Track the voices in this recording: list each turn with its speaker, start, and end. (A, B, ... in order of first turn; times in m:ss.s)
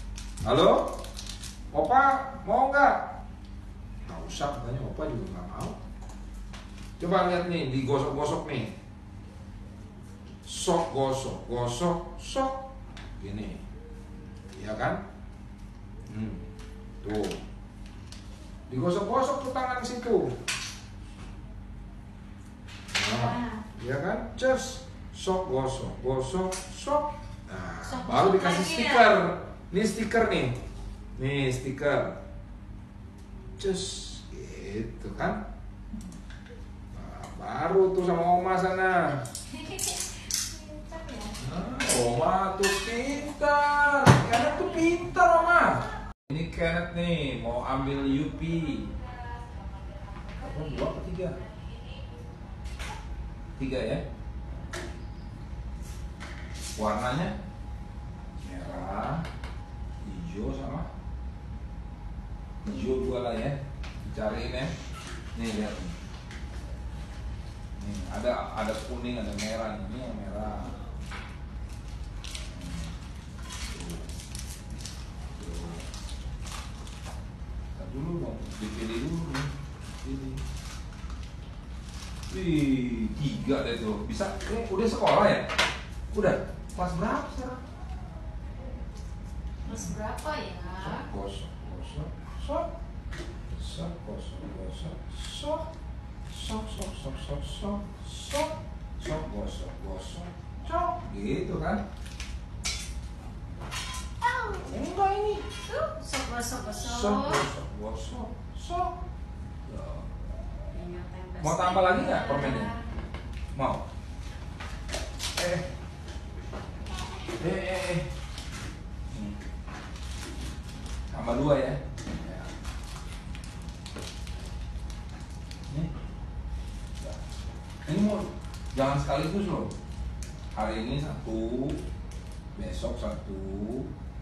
0:00.4-0:00.9 A
0:01.7-0:03.1 A
0:04.0-0:05.8 A
0:07.0-0:08.8 A
0:10.4-0:13.6 A
0:14.5-0:15.0 A
0:16.1-0:16.4 A
0:17.0-0:17.4 A
0:18.7-0:20.4 A
0:22.9-0:30.6 A
0:23.1-0:23.6 B
0:27.8-0:29.2 B
0:31.1-0:32.2 A
0:33.6-0:35.4 A
0:36.9-0:39.2 A
0:39.5-0:41.4 B
0:41.3-0:48.9 A
0:50.4-0:51.4 A
0:53.6-0:54.0 A
0:56.8-0:57.3 A
0:58.4-0:59.3 A
1:00.0-1:00.9 A
1:02.6-1:04.7 A
1:05.3-1:06.0 A
1:07.8-1:10.8 A
1:12.5-1:12.9 A
1:13.7-1:14.1 A
1:15.4-1:15.9 A
1:17.8-1:20.4 A
1:22.3-1:25.5 A
1:26.1-1:27.6 A
1:29.6-1:31.1 B
1:30.8-1:32.7 A
1:33.5-1:35.7 A
1:36.3-1:41.8 A
1:44.2-1:44.7 B
1:44.6-1:45.5 A
1:45.6-1:47.4 B
1:46.8-1:49.0 A
1:49.7-1:50.2 A
1:50.7-1:52.8 B
1:51.4-1:52.8 A
1:53.5-1:53.8 A
1:55.3-1:55.7 A
1:57.3-1:58.1 A
1:59.1-1:59.4 A
2:01.1-2:02.4 A
2:07.8-2:09.7 A
2:10.5-2:11.8 A
2:12.5-2:13.9 A